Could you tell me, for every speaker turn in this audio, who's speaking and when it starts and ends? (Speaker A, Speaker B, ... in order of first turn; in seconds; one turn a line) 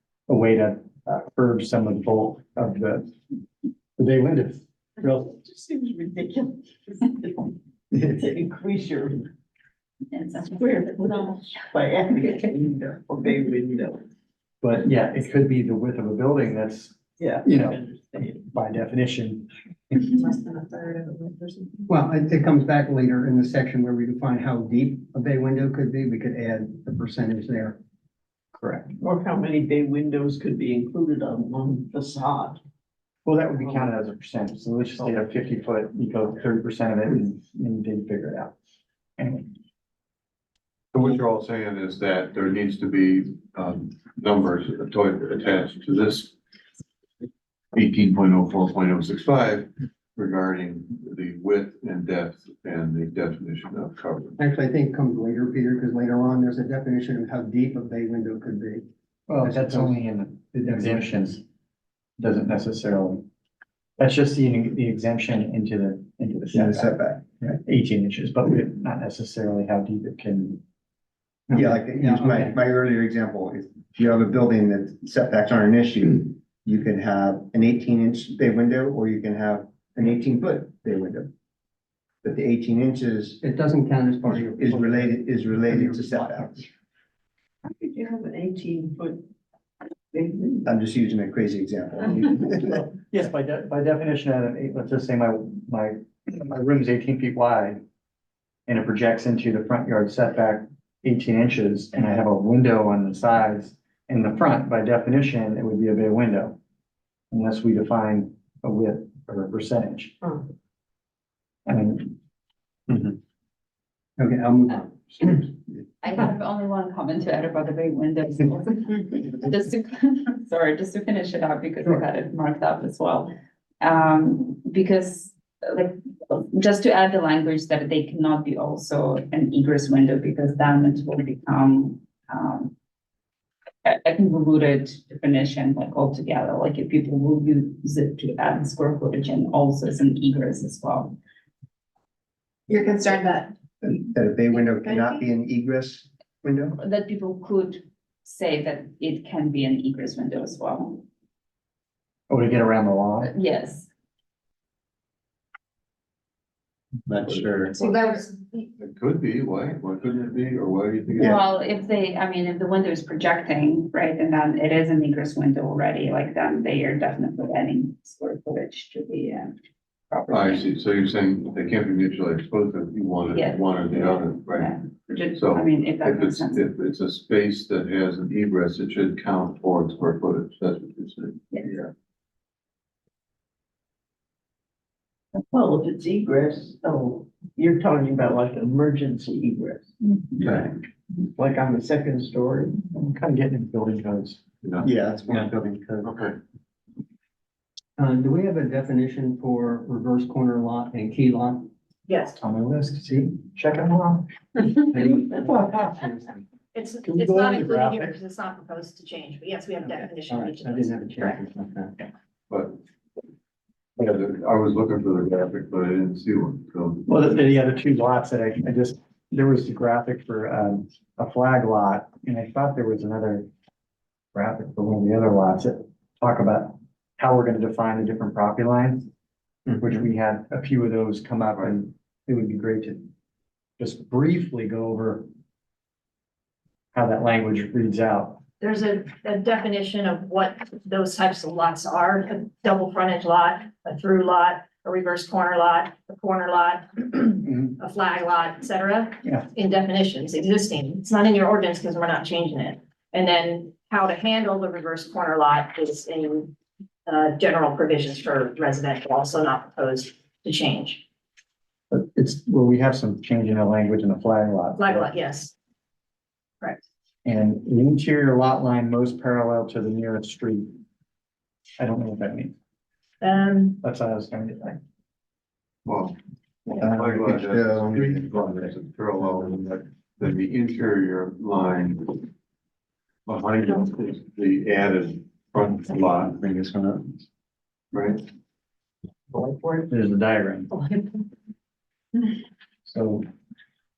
Speaker A: 0.3-3.1
Speaker A: 4.0-5.1
Speaker B: 5.0-9.3
Speaker C: 10.1-11.3
Speaker B: 10.5-14.0
Speaker A: 14.6-17.8
Speaker B: 17.2-18.5
Speaker A: 18.4-20.0
Speaker B: 20.6-21.3
Speaker D: 21.9-27.8
Speaker A: 28.6-29.0
Speaker B: 29.0-32.6
Speaker A: 33.2-38.5
Speaker A: 39.2-39.5
Speaker E: 40.9-46.3
Speaker E: 47.7-54.4
Speaker D: 54.4-58.9
Speaker A: 59.3-61.4
Speaker D: 59.4-60.0
Speaker D: 60.5-61.0
Speaker A: 62.2-63.2
Speaker A: 64.0-70.6
Speaker F: 66.5-67.2
Speaker F: 71.5-81.3
Speaker D: 72.0-72.5
Speaker F: 82.2-83.4
Speaker D: 83.4-86.5
Speaker F: 84.3-86.7
Speaker B: 87.7-89.2
Speaker B: 90.1-90.7
Speaker F: 90.7-92.8
Speaker A: 92.7-97.8
Speaker A: 98.7-106.6
Speaker A: 107.3-110.3
Speaker A: 111.7-112.2
Speaker A: 112.9-113.2
Speaker D: 114.2-115.4
Speaker C: 116.0-132.7
Speaker C: 133.8-141.2
Speaker F: 143.8-146.8
Speaker C: 146.8-151.1
Speaker A: 152.3-153.3
Speaker C: 153.2-153.9
Speaker F: 157.1-157.8
Speaker C: 157.8-158.1
Speaker E: 158.8-161.4
Speaker C: 161.2-169.6
Speaker C: 170.1-170.7
Speaker E: 170.3-174.8
Speaker C: 173.3-176.7
Speaker E: 175.3-181.9
Speaker B: 185.5-189.9
Speaker B: 190.4-192.8
Speaker A: 192.9-194.4
Speaker E: 194.6-194.9
Speaker F: 194.8-196.1
Speaker E: 196.0-196.4
Speaker D: 198.0-201.7
Speaker G: 202.1-202.3
Speaker A: 202.4-204.3
Speaker D: 204.9-206.4
Speaker A: 205.0-206.0
Speaker G: 206.7-211.4
Speaker A: 207.0-208.2
Speaker D: 210.3-212.0
Speaker E: 212.5-212.8
Speaker E: 214.0-217.1
Speaker A: 217.1-223.5
Speaker A: 224.3-229.1
Speaker A: 229.8-233.1
Speaker A: 233.8-235.3
Speaker A: 236.9-238.4
Speaker G: 238.6-256.5
Speaker G: 257.1-261.0
Speaker A: 261.9-265.1
Speaker G: 264.8-265.5
Speaker A: 267.2-270.8
Speaker A: 271.8-272.6
Speaker G: 273.2-273.8
Speaker A: 273.8-274.8
Speaker E: 275.9-276.2
Speaker E: 276.7-282.3
Speaker F: 276.8-278.7
Speaker E: 283.3-286.4
Speaker F: 286.3-287.2
Speaker E: 287.9-288.2
Speaker B: 289.4-289.7
Speaker A: 289.9-290.7
Speaker A: 292.9-293.2